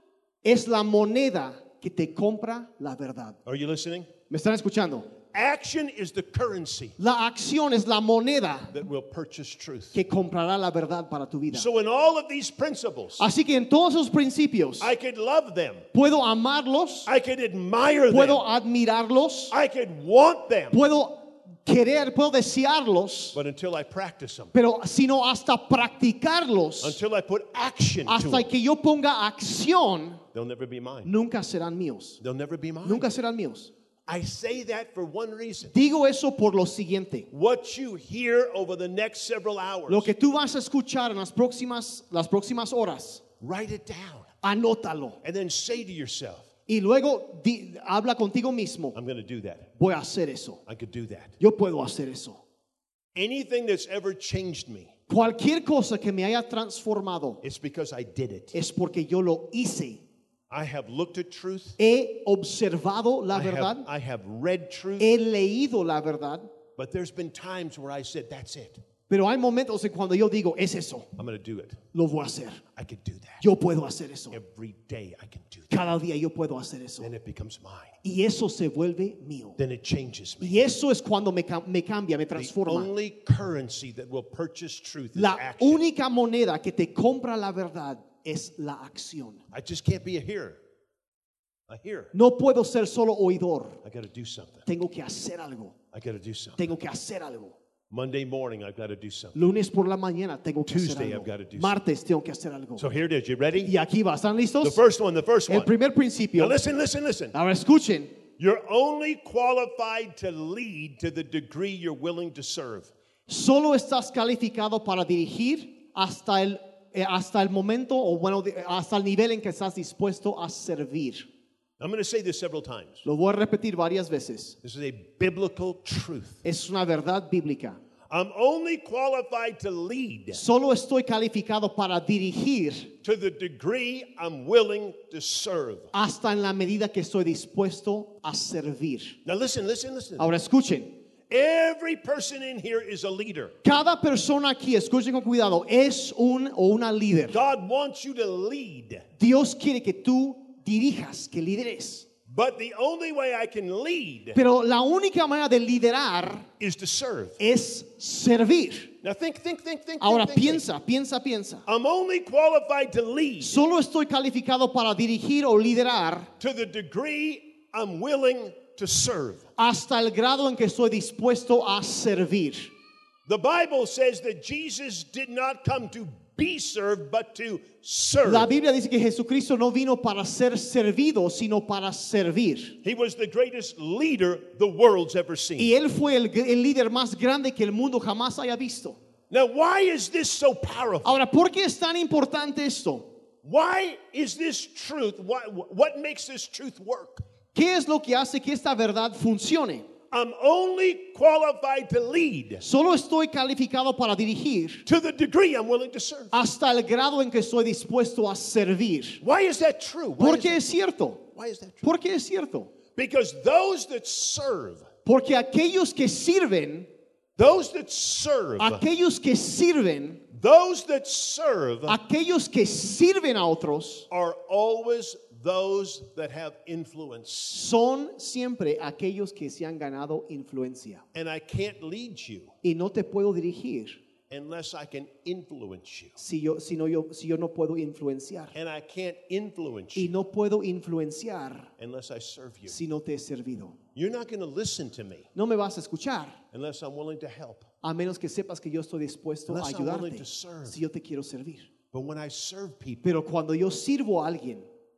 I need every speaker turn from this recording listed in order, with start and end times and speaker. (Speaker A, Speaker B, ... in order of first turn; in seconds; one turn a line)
Speaker A: 0.4-3.4
Speaker B: 3.4-4.1
Speaker A: 4.3-5.1
Speaker B: 5.3-7.0
Speaker A: 7.0-8.7
Speaker B: 8.7-10.0
Speaker A: 9.9-11.7
Speaker B: 11.5-13.2
Speaker A: 13.2-14.9
Speaker B: 14.8-15.8
Speaker A: 15.9-17.1
Speaker B: 17.1-18.4
Speaker A: 18.1-19.5
Speaker B: 19.5-20.8
Speaker A: 20.7-23.4
Speaker B: 23.3-24.5
Speaker A: 24.5-27.0
Speaker B: 26.8-28.5
Speaker A: 28.1-30.2
Speaker B: 30.3-31.1
Speaker A: 31.0-32.2
Speaker B: 32.2-33.1
Speaker A: 32.8-33.7
Speaker B: 34.0-35.7
Speaker A: 35.7-37.3
Speaker B: 37.3-40.1
Speaker A: 39.9-43.2
Speaker B: 43.4-44.3
Speaker A: 44.4-45.2
Speaker B: 45.2-46.5
Speaker A: 46.7-49.0
Speaker B: 48.9-49.7
Speaker A: 49.8-50.6
Speaker B: 50.7-51.4
Speaker A: 51.4-52.4
Speaker B: 53.1-54.9
Speaker A: 55.1-57.4
Speaker B: 57.4-58.5
Speaker A: 58.5-60.0
Speaker B: 60.5-61.8
Speaker A: 61.8-63.9
Speaker B: 63.3-65.1
Speaker A: 65.0-66.5
Speaker B: 66.8-68.8
Speaker A: 69.1-71.1
Speaker B: 71.2-71.8
Speaker A: 71.9-72.6
Speaker B: 72.7-73.4
Speaker A: 73.4-74.4
Speaker B: 74.3-75.8
Speaker A: 75.7-77.1
Speaker B: 77.0-78.0
Speaker A: 78.0-79.6
Speaker B: 79.6-80.6
Speaker A: 80.4-82.9
Speaker B: 82.3-85.8
Speaker A: 85.1-89.4
Speaker B: 89.5-90.6
Speaker B: 91.7-92.1
Speaker A: 92.1-93.8
Speaker B: 93.8-94.7
Speaker A: 94.7-95.8
Speaker B: 95.9-96.7
Speaker A: 96.6-97.6
Speaker B: 97.9-99.4
Speaker A: 99.3-102.9
Speaker B: 100.7-101.8
Speaker B: 102.8-103.7
Speaker A: 103.6-104.8
Speaker B: 104.6-105.7
Speaker A: 105.5-106.6
Speaker B: 106.3-107.3
Speaker A: 107.3-108.2
Speaker B: 108.4-112.9
Speaker A: 113.3-121.3
Speaker B: 121.8-123.0
Speaker A: 123.0-124.6
Speaker B: 124.6-126.4
Speaker A: 126.4-127.8
Speaker B: 128.1-130.4
Speaker A: 130.3-132.9
Speaker B: 133.0-135.9
Speaker A: 135.9-139.2
Speaker B: 139.2-140.3
Speaker A: 140.2-141.0
Speaker B: 141.3-143.5
Speaker A: 143.6-147.4
Speaker B: 147.3-149.0
Speaker A: 149.2-152.1
Speaker B: 152.3-154.4
Speaker A: 154.3-156.5
Speaker B: 156.6-157.4
Speaker A: 157.4-158.9
Speaker B: 159.0-160.6
Speaker A: 160.0-161.6
Speaker B: 161.7-163.6
Speaker A: 163.4-166.3
Speaker B: 166.4-169.5
Speaker A: 169.6-172.7
Speaker B: 173.2-178.5
Speaker A: 178.2-182.8
Speaker B: 182.8-185.7
Speaker A: 185.6-189.0
Speaker B: 189.3-191.2
Speaker A: 191.0-193.1
Speaker B: 193.4-197.2
Speaker A: 197.5-199.9
Speaker B: 200.1-202.6
Speaker A: 202.6-204.8
Speaker B: 204.8-206.3
Speaker A: 206.3-209.2
Speaker B: 209.2-210.6
Speaker A: 210.2-211.2
Speaker B: 211.3-211.9
Speaker A: 211.8-212.7
Speaker B: 212.9-214.9
Speaker A: 215.0-216.9
Speaker B: 217.4-218.8
Speaker A: 218.6-220.2
Speaker B: 220.3-222.0
Speaker A: 221.8-224.1
Speaker B: 224.1-227.6
Speaker A: 227.5-231.0
Speaker B: 231.1-232.5
Speaker A: 232.6-234.0
Speaker B: 234.3-236.2
Speaker A: 236.2-238.5
Speaker B: 238.5-240.1
Speaker A: 239.9-241.7
Speaker B: 241.8-242.8
Speaker A: 242.7-243.8
Speaker B: 243.9-245.3
Speaker A: 245.3-246.4
Speaker B: 246.5-247.7
Speaker A: 247.8-251.7
Speaker B: 249.5-250.8
Speaker B: 251.9-253.2
Speaker A: 253.0-254.7